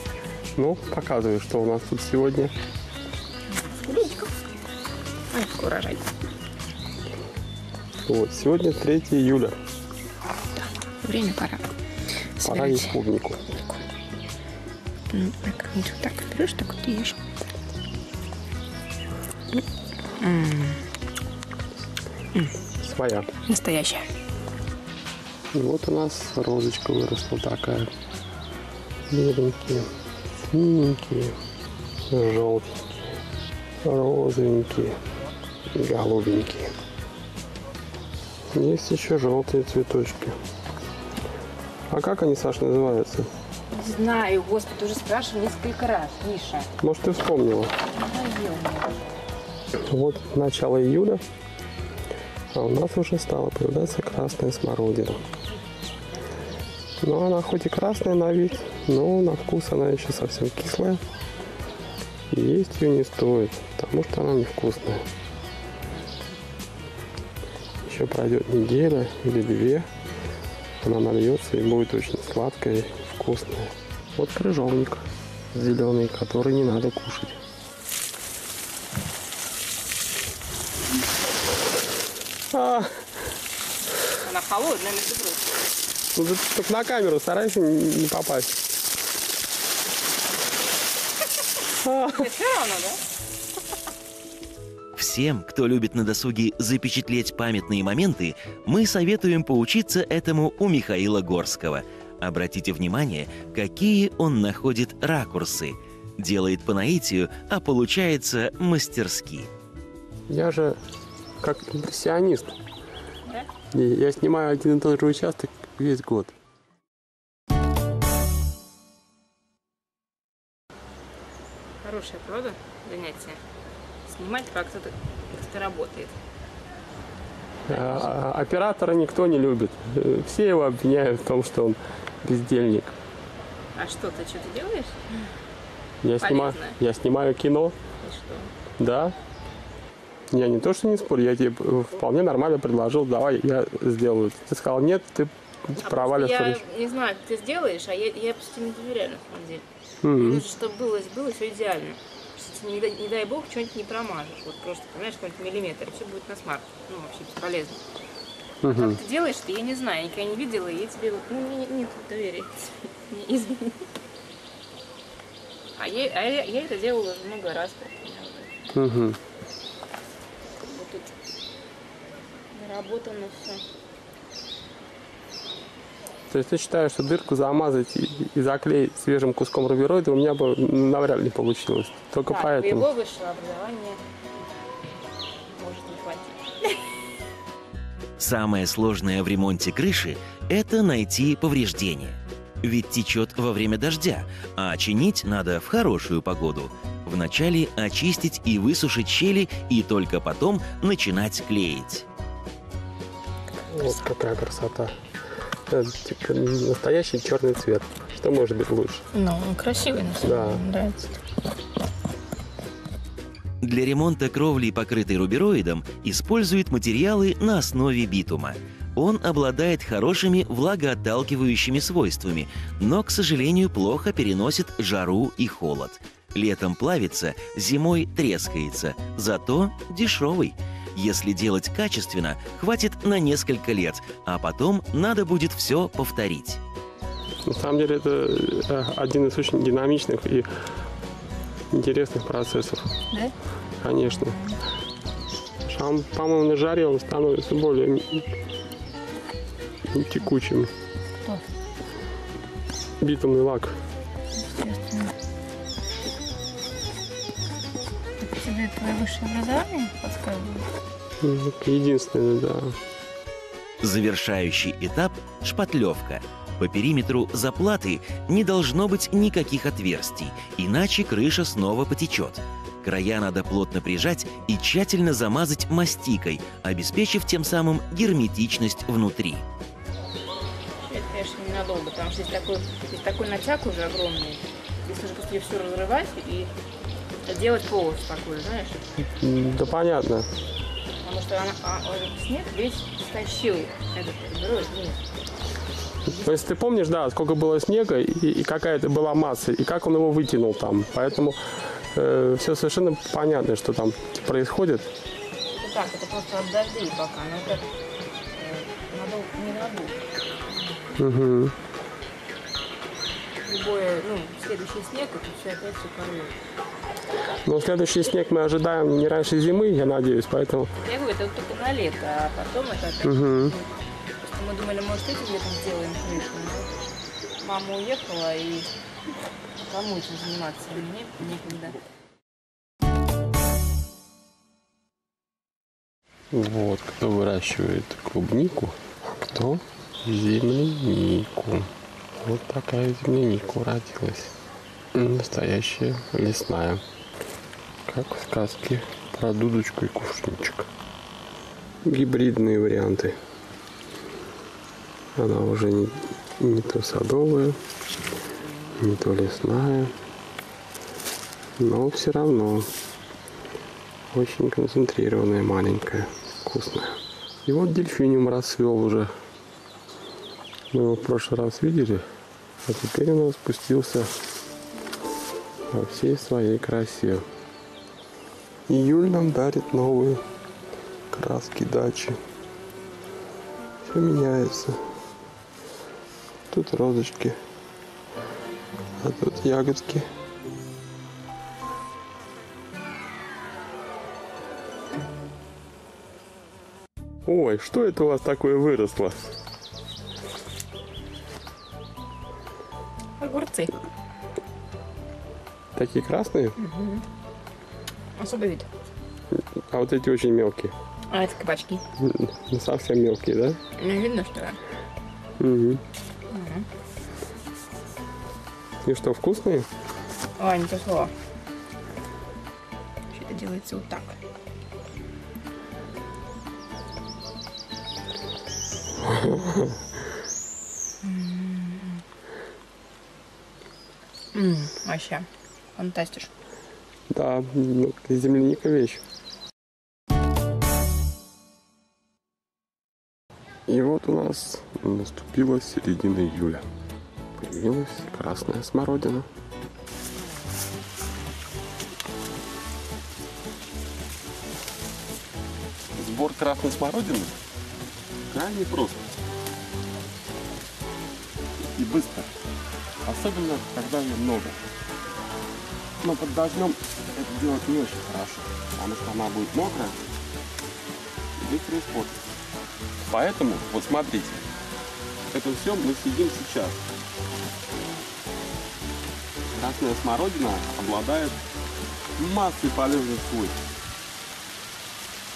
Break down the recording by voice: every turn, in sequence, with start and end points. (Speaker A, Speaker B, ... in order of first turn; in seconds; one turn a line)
Speaker A: 0.6-2.5
Speaker B: 3.7-4.3
Speaker B: 5.3-6.1
Speaker A: 8.1-9.6
Speaker B: 10.6-11.7
Speaker B: 12.4-13.8
Speaker A: 12.4-13.4
Speaker B: 15.1-17.2
Speaker B: 20.2-20.9
Speaker A: 22.8-23.3
Speaker B: 23.4-24.1
Speaker A: 25.5-27.9
Speaker A: 29.1-29.9
Speaker A: 30.5-31.4
Speaker A: 32.1-33.0
Speaker A: 33.8-35.0
Speaker A: 35.7-36.7
Speaker A: 38.5-40.4
Speaker A: 41.9-43.3
Speaker B: 43.7-46.7
Speaker A: 46.8-47.7
Speaker B: 47.9-49.1
Speaker A: 49.9-51.2
Speaker A: 52.5-55.2
Speaker A: 57.0-61.0
Speaker A: 62.3-65.0
Speaker A: 67.8-69.9
Speaker A: 70.8-77.4
Speaker A: 82.5-83.0
Speaker B: 84.2-85.6
Speaker A: 86.1-88.6
Speaker A: 91.8-92.3
Speaker B: 92.0-93.0
Speaker C: 95.0-109.5
Speaker A: 110.3-110.8
Speaker A: 111.4-112.6
Speaker A: 113.7-116.3
Speaker B: 121.8-123.4
Speaker B: 124.0-126.2
Speaker A: 127.7-132.9
Speaker B: 127.7-128.1
Speaker B: 133.8-135.2
Speaker A: 136.0-137.8
Speaker B: 136.2-136.8
Speaker B: 138.0-138.5
Speaker A: 138.8-139.1
Speaker A: 140.3-146.6
Speaker B: 145.8-157.8
Speaker A: 150.0-150.4
Speaker A: 158.6-159.0
Speaker B: 158.7-163.8
Speaker B: 165.8-168.5
Speaker A: 168.7-169.2
Speaker B: 170.7-171.2
Speaker B: 172.5-173.6
Speaker A: 176.3-182.9
Speaker B: 182.2-184.0
Speaker B: 185.5-186.8
Speaker C: 188.2-202.0
Speaker A: 203.7-205.0
Speaker A: 205.7-209.0
Speaker B: 209.1-211.2
Speaker A: 210.2-210.6
Speaker C: 213.6-236.6
Speaker A: 237.5-240.5
Speaker A: 241.7-242.9
Speaker A: 243.8-244.4
Speaker A: 245.6-248.2
Speaker A: 249.9-250.7
Speaker A: 253.0-253.8
Speaker B: 254.4-255.1
Speaker B: 258.2-260.7
Speaker A: 261.2-262.8
Speaker C: 263.8-279.4
Speaker B: 280.8-286.5
Speaker B: 287.2-288.8
Speaker A: 289.2-290.3
Speaker B: 291.0-295.0
Speaker B: 296.1-296.4
Speaker A: 296.1-301.4
Speaker A: 301.9-304.9
Speaker B: 305.5-307.7
Speaker B: 308.4-310.8
Speaker A: 311.0-311.5
Speaker B: 313.4-316.4
Speaker A: 317.4-320.7
Speaker B: 320.8-323.6
Speaker A: 323.0-323.6
Speaker B: 324.2-326.8
Speaker B: 327.4-328.7
Speaker B: 329.6-331.8
Speaker A: 336.3-344.3
Speaker A: 344.9-346.8
Speaker A: 347.9-350.7
Speaker A: 351.9-353.2
Speaker A: 355.2-357.6
Speaker A: 358.8-359.9
Speaker A: 361.6-362.7
Speaker A: 364.1-369.1
Speaker A: 370.7-372.1
Speaker A: 372.6-374.1
Speaker A: 375.7-377.3
Speaker A: 378.7-380.2
Speaker A: 381.1-382.2
Speaker A: 383.8-384.8
Speaker A: 386.5-387.4
Speaker A: 389.0-390.1
Speaker A: 397.3-399.3
Speaker B: 403.2-403.8
Speaker A: 405.8-406.6
Speaker B: 406.6-407.0
Speaker B: 408.2-408.7
Speaker A: 409.4-410.7
Speaker B: 411.1-411.8
Speaker A: 412.0-413.6
Speaker B: 413.8-414.6
Speaker A: 415.4-415.8
Speaker B: 416.3-416.7
Speaker A: 418.8-419.7
Speaker B: 420.4-421.1
Speaker B: 423.1-424.2
Speaker A: 429.0-429.7
Speaker B: 431.0-432.0
Speaker B: 434.3-436.3
Speaker A: 437.1-439.0
Speaker A: 443.7-446.6
Speaker A: 447.4-449.3
Speaker A: 456.0-457.4
Speaker A: 458.3-459.1
Speaker A: 461.6-462.3
Speaker A: 463.1-464.6
Speaker A: 466.0-470.0
Speaker A: 471.4-472.2
Speaker A: 473.0-474.5
Speaker A: 475.3-476.8
Speaker A: 479.5-481.4
Speaker A: 482.2-483.6